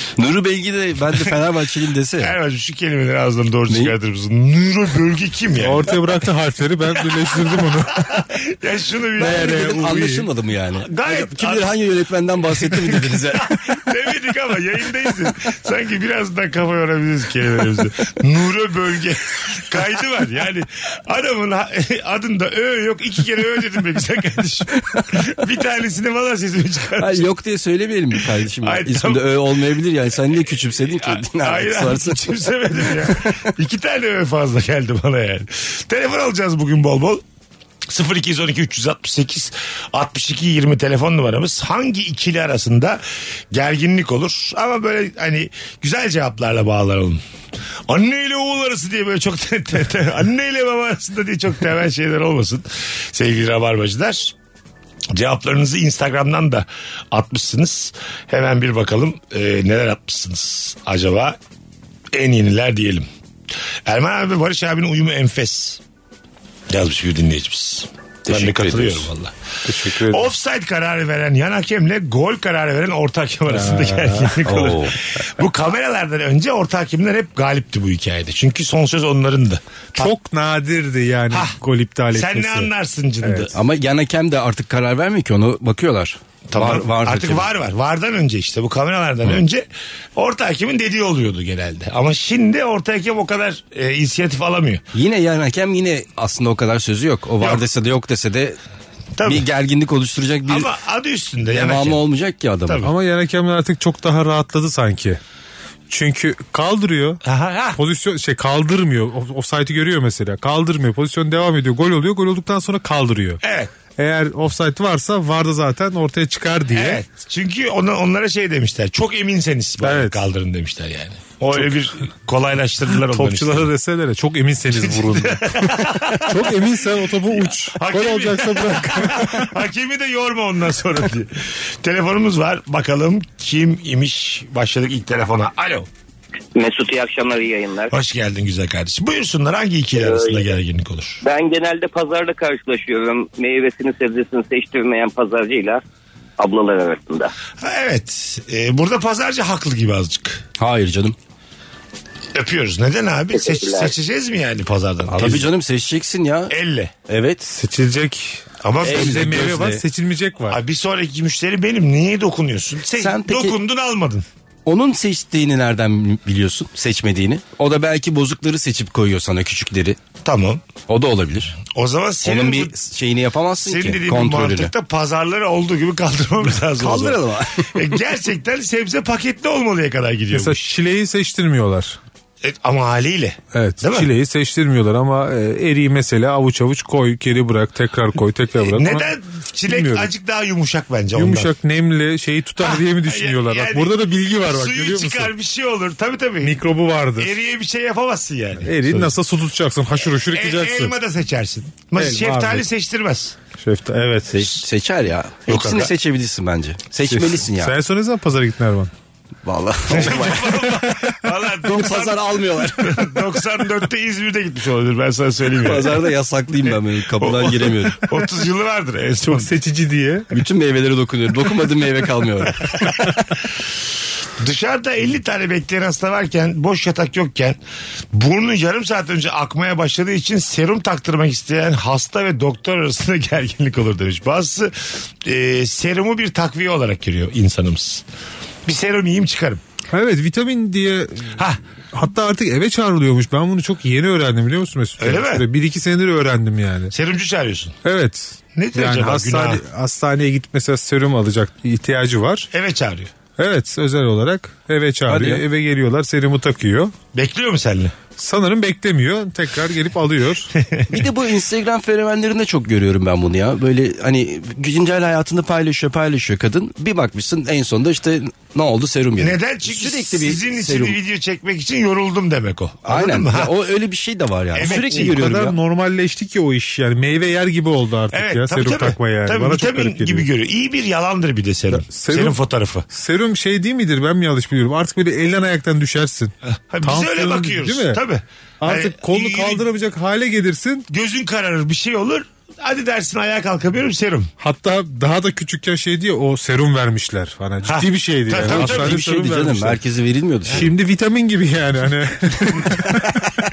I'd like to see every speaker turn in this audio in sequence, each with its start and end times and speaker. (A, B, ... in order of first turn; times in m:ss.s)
0:00.2-0:02.4 A
0:02.2-0:05.9 B
0:03.7-0:03.9 A
0:05.6-0:08.2 C
0:07.9-0:10.1 B
0:09.2-0:10.2 C
0:09.2-0:13.7 A
0:10.8-0:11.7 B
0:12.6-0:27.3 B
0:27.0-0:33.4 A
0:28.6-0:29.4 B
0:30.9-0:37.2 B
0:37.9-0:47.2 B
0:47.9-0:54.3 B
0:55.1-1:01.4 B
1:02.1-1:03.1 B
1:03.8-1:05.8 B
1:06.7-1:20.1 B
1:08.2-1:09.1 A
1:09.6-1:10.3 C
1:13.5-1:14.4 C
1:14.4-1:14.9 A
1:20.0-1:22.7 C
1:21.3-1:21.6 B
1:22.1-1:23.6 B
1:23.2-1:23.5 C
1:23.5-1:27.5 A
1:26.5-1:29.6 B
1:30.2-1:34.8 B
1:34.9-1:38.6 A
1:39.2-1:39.4 B
1:39.2-1:40.7 A
1:40.5-1:42.0 B
1:41.5-1:42.8 A
1:42.7-1:42.9 B
1:42.8-1:45.2 C
1:45.9-1:47.2 C
1:47.2-1:47.8 B
1:47.7-1:53.4 C
1:53.4-1:53.7 B
1:54.0-1:57.0 C
1:56.7-2:03.7 B
1:59.8-2:00.2 C
2:02.9-2:09.5 C
2:04.7-2:06.7 B
2:07.3-2:15.9 B
2:16.5-2:17.9 D
2:17.9-2:21.2 B
2:20.0-2:20.4 D
2:21.2-2:25.8 D
2:26.4-2:27.3 D
2:27.6-2:30.4 B
2:30.6-2:31.2 A
2:32.3-2:35.5 B
2:33.4-2:33.9 D
2:35.1-2:36.5 A
2:36.5-2:36.9 B
2:37.1-2:37.5 A
2:37.5-2:40.6 C
2:38.6-2:39.4 B
2:38.8-2:39.8 A
2:40.5-2:44.2 B
2:43.0-2:43.6 A
2:44.6-2:50.0 A
2:50.2-2:50.6 B
2:50.9-2:51.6 A
2:51.7-2:52.7 B
2:52.2-2:54.7 A
2:53.6-3:00.7 B
2:56.8-2:57.9 A
3:00.3-3:02.0 C
3:02.4-3:04.1 B
3:03.5-3:09.2 C
3:08.6-3:11.5 B
3:09.7-3:10.1 C
3:11.1-3:15.3 C
3:12.6-3:16.6 B
3:16.4-3:17.3 C
3:17.2-3:19.1 B
3:18.6-3:21.0 C
3:20.1-3:23.4 B
3:22.0-3:22.6 C
3:23.6-3:24.5 C
3:24.3-3:27.7 A
3:25.5-3:25.9 B
3:27.1-3:28.9 C
3:29.4-3:30.6 A
3:29.9-3:36.0 B
3:30.8-3:31.1 C
3:31.6-3:33.4 A
3:35.6-3:38.1 A
3:37.2-3:39.5 B
3:39.2-3:40.4 C
3:40.3-3:42.8 A
3:42.7-3:43.3 B
3:44.4-3:47.6 B
3:48.1-3:54.7 B
3:55.2-3:58.0 B
3:58.6-3:59.6 B
3:59.9-4:06.9 C
4:05.0-4:05.4 B
4:06.9-4:07.8 B
4:07.8-4:12.5 C
4:08.5-4:09.6 B
4:12.5-4:13.1 B
4:13.4-4:16.9 C
4:15.1-4:15.4 A
4:17.1-4:17.9 B
4:18.2-4:20.5 C
4:20.5-4:21.0 B
4:20.9-4:31.0 A
4:29.2-4:33.6 B
4:32.8-4:35.6 A
4:34.6-4:35.2 B
4:34.6-4:40.3 C
4:38.1-4:42.8 B
4:41.7-4:42.4 C
4:42.9-4:48.0 C
4:46.7-4:49.6 B
4:48.6-4:50.9 C
4:50.9-4:54.3 B
4:54.4-4:59.8 C
4:57.6-4:59.0 B
4:58.4-5:00.7 A
5:00.5-5:03.2 C